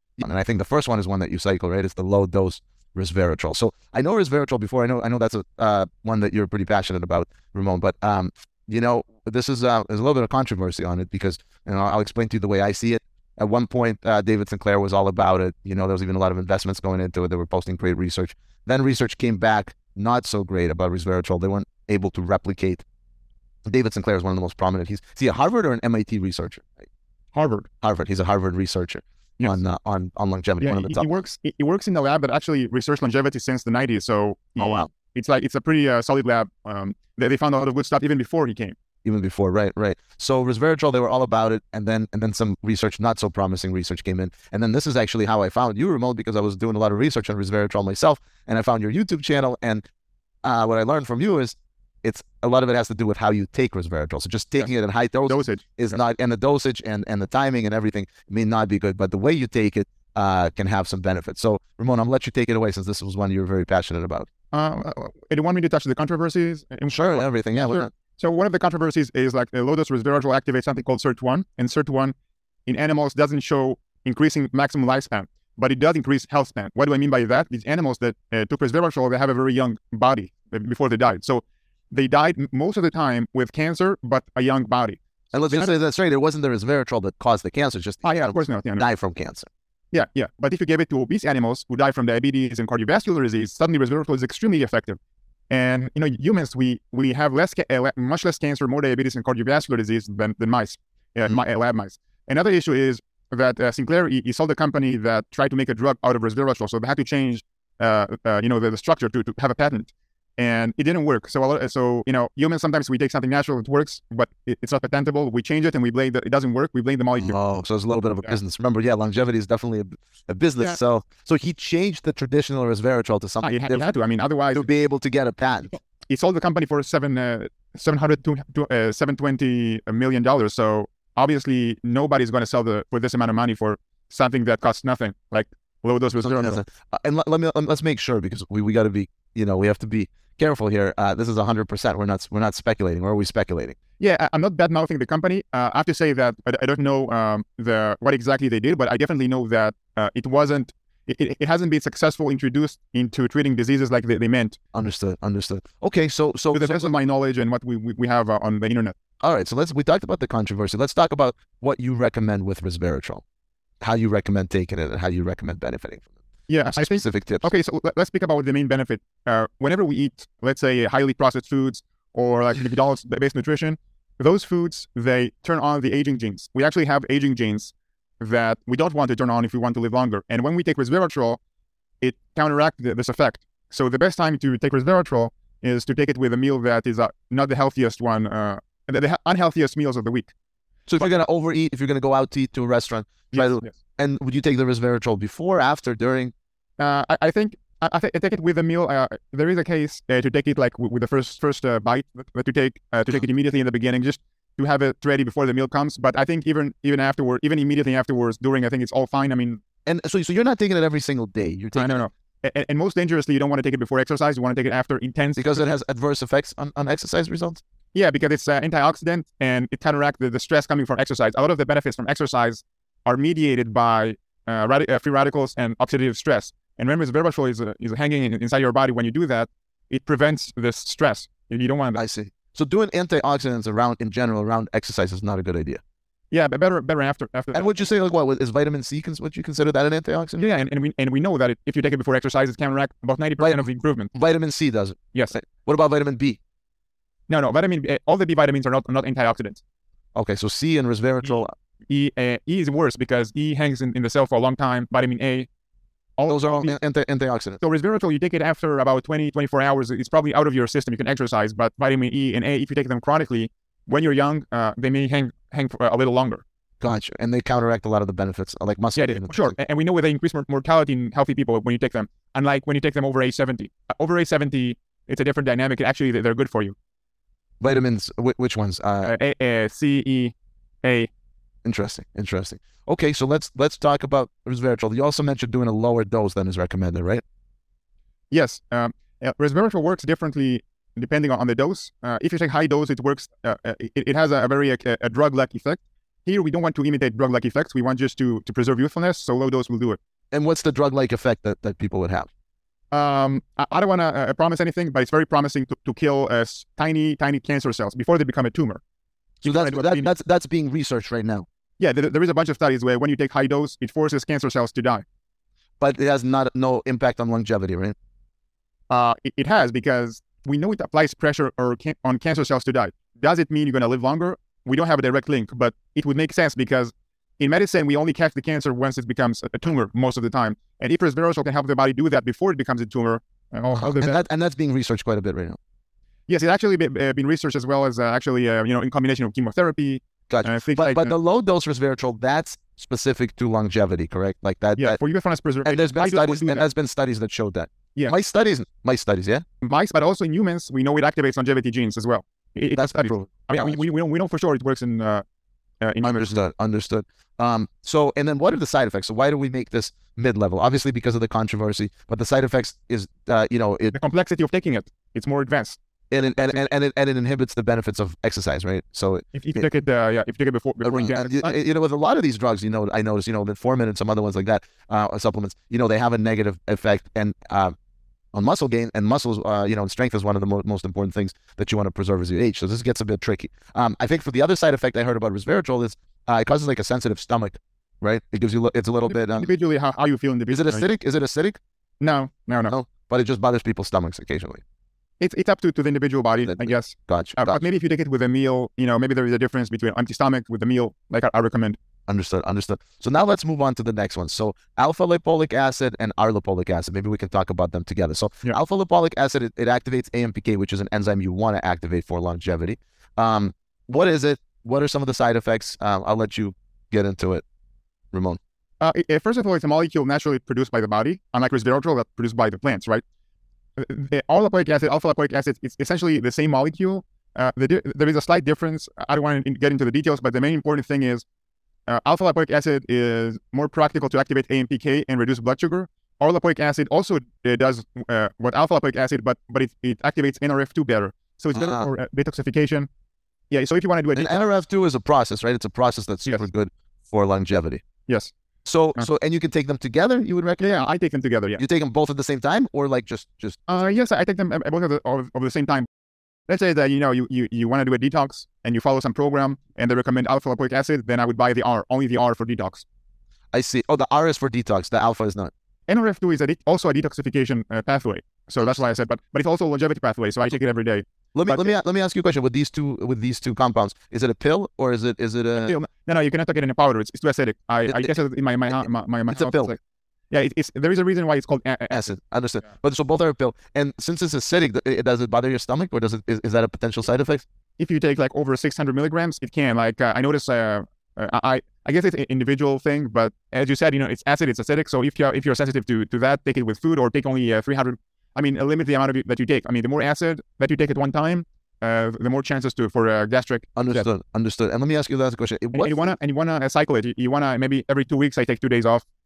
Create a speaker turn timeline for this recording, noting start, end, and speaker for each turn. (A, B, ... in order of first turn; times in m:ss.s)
0:00.2-0:22.8 A
0:23.6-0:26.7 A
0:27.3-0:27.7 B
0:27.8-0:31.1 A
0:30.6-0:38.8 B
0:34.6-0:34.9 A
0:39.0-0:49.8 A
0:50.4-1:04.3 A
0:55.2-0:55.8 B
1:04.5-1:12.1 B
1:06.9-1:07.9 A
1:12.7-1:25.0 B
1:25.3-1:29.5 A
1:28.0-1:28.8 B
1:29.9-1:35.0 B
1:35.5-1:57.4 B
1:57.2-2:03.8 A
2:03.4-2:04.7 B
2:04.5-2:05.7 A
2:06.1-2:16.6 B
2:16.2-2:23.8 A
2:24.0-2:34.6 B
2:34.7-2:36.9 A
2:36.5-2:38.9 B
2:39.2-2:43.2 A
2:43.8-2:46.1 A
2:46.5-3:01.4 B
2:46.7-2:47.5 A
3:02.0-3:10.3 B
3:10.9-3:16.3 A
3:13.3-3:13.7 B
3:16.8-3:29.6 B
3:29.8-3:32.0 A
3:31.7-3:35.6 B
3:35.4-3:37.6 A
3:37.9-3:52.0 B
3:51.9-3:55.8 A
3:56.3-3:57.7 B
3:57.5-4:00.4 A
4:00.4-4:04.1 B
4:03.4-4:06.4 A
4:07.3-4:09.6 B
4:10.1-4:11.5 A
4:11.9-4:15.5 B
4:16.2-4:16.8 B
4:16.3-4:17.6 A
4:17.6-4:26.4 B
4:26.8-4:29.5 A
4:29.0-4:36.7 B
4:37.6-4:39.1 A
4:39.0-4:41.1 B
4:41.6-4:47.2 A
4:48.3-5:00.0 B
5:00.3-5:02.3 A
5:02.9-5:08.8 B
5:09.4-5:10.1 B
5:09.4-5:11.4 A
5:11.8-5:15.0 B
5:15.8-5:17.9 A
5:18.9-5:34.2 B
5:33.8-5:35.6 A
5:36.3-5:41.1 B
5:40.3-5:45.0 A
5:44.8-5:46.6 B
5:45.6-5:49.4 A
5:49.6-5:55.2 B
5:52.7-5:53.8 A
5:55.8-5:56.2 B
5:56.0-6:03.9 A
6:03.9-6:05.8 B
6:06.1-6:09.6 A
6:09.3-6:11.6 B
6:10.8-6:17.7 A
6:18.3-6:29.5 A
6:29.1-6:30.8 B
6:30.5-6:31.6 A
6:32.0-6:32.7 B
6:32.7-6:34.6 A
6:35.2-6:41.8 B
6:36.5-6:37.6 A
6:42.1-6:57.4 A
6:58.1-6:58.4 A
6:58.8-7:03.0 B
7:03.8-7:11.2 B
7:11.9-7:22.9 B
7:21.5-7:21.9 A
7:23.5-7:24.4 B
7:24.1-7:27.8 A
7:28.1-7:28.3 B
7:28.6-7:30.7 A
7:30.6-7:31.6 B
7:31.6-7:33.6 A
7:33.7-7:35.9 B
7:36.5-7:42.8 B
7:43.5-7:45.5 A
7:45.9-7:51.7 B
7:51.3-7:55.7 A
7:55.6-7:59.8 B
7:57.9-7:58.1 A
7:59.3-7:59.7 A
8:00.3-8:02.1 B
8:01.9-8:07.4 A
8:07.8-8:24.0 B
8:23.8-8:26.0 A
8:25.7-8:29.0 B